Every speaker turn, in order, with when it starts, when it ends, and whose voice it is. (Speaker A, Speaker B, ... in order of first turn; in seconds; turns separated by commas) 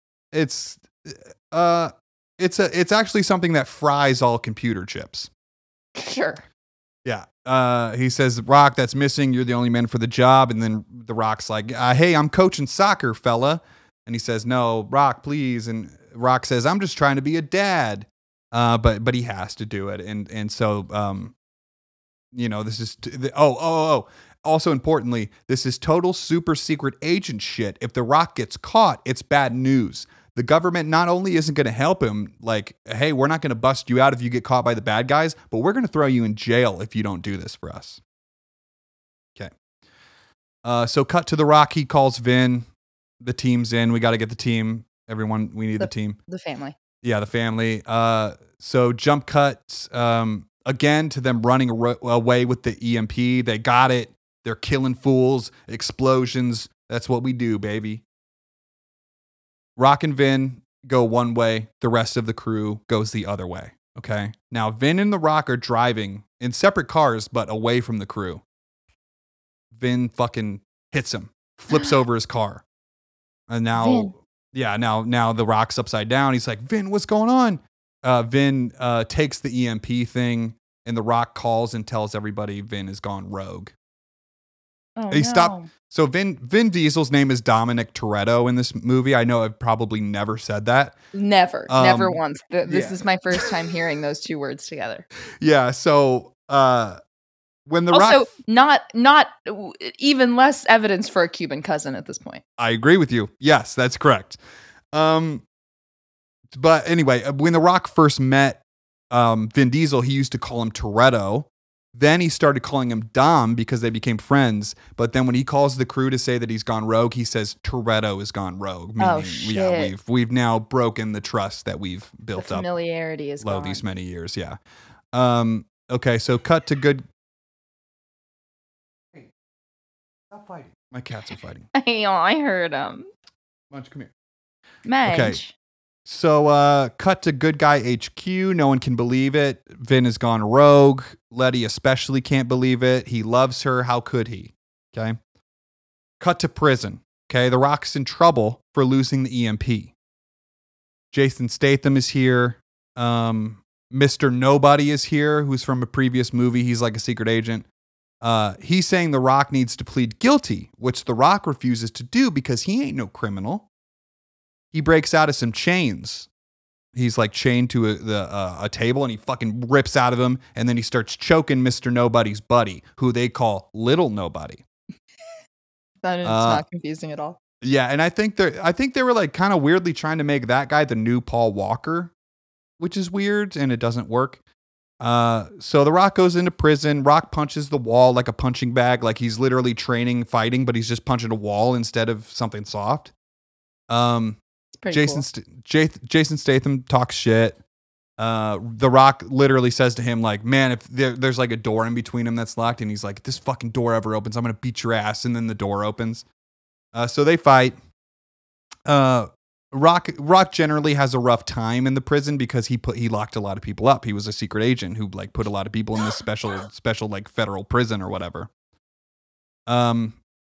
Speaker A: 0.3-5.3, Speaker B: 6.0-6.4, Speaker A: 7.0-21.3, Speaker A: 22.3-38.0, Speaker A: 40.6-42.7, Speaker A: 43.2-46.2, Speaker B: 45.8-46.7, Speaker A: 47.0-58.0, Speaker A: 59.8-68.4, Speaker A: 69.7-72.6, Speaker A: 73.5-83.7, Speaker B: 73.8-74.1, Speaker B: 85.0-85.7, Speaker A: 85.1-91.0, Speaker B: 91.1-95.0, Speaker A: 91.7-93.5, Speaker A: 95.4-97.0, Speaker A: 97.7-98.2, Speaker B: 97.9-102.4, Speaker A: 102.6-104.4, Speaker A: 104.9-105.4, Speaker A: 106.5-122.7, Speaker B: 119.0-119.9, Speaker B: 122.3-123.8, Speaker A: 123.4-124.6, Speaker A: 125.1-127.0, Speaker A: 130.3-131.7, Speaker B: 131.7-133.1, Speaker A: 133.7-134.1, Speaker B: 134.8-135.5, Speaker A: 135.0-135.4, Speaker A: 136.1-145.2, Speaker A: 146.2-149.9, Speaker A: 151.1-157.7, Speaker A: 158.2-163.7, Speaker A: 164.7-166.3, Speaker A: 166.9-174.6, Speaker B: 176.0-177.4, Speaker A: 176.2-176.6, Speaker A: 177.6-182.1, Speaker A: 182.8-184.4, Speaker A: 185.0-193.1, Speaker A: 193.9-194.4, Speaker B: 194.7-195.2, Speaker A: 194.9-197.6, Speaker A: 198.2-206.2, Speaker A: 206.9-207.8, Speaker A: 208.9-218.5, Speaker A: 219.7-220.2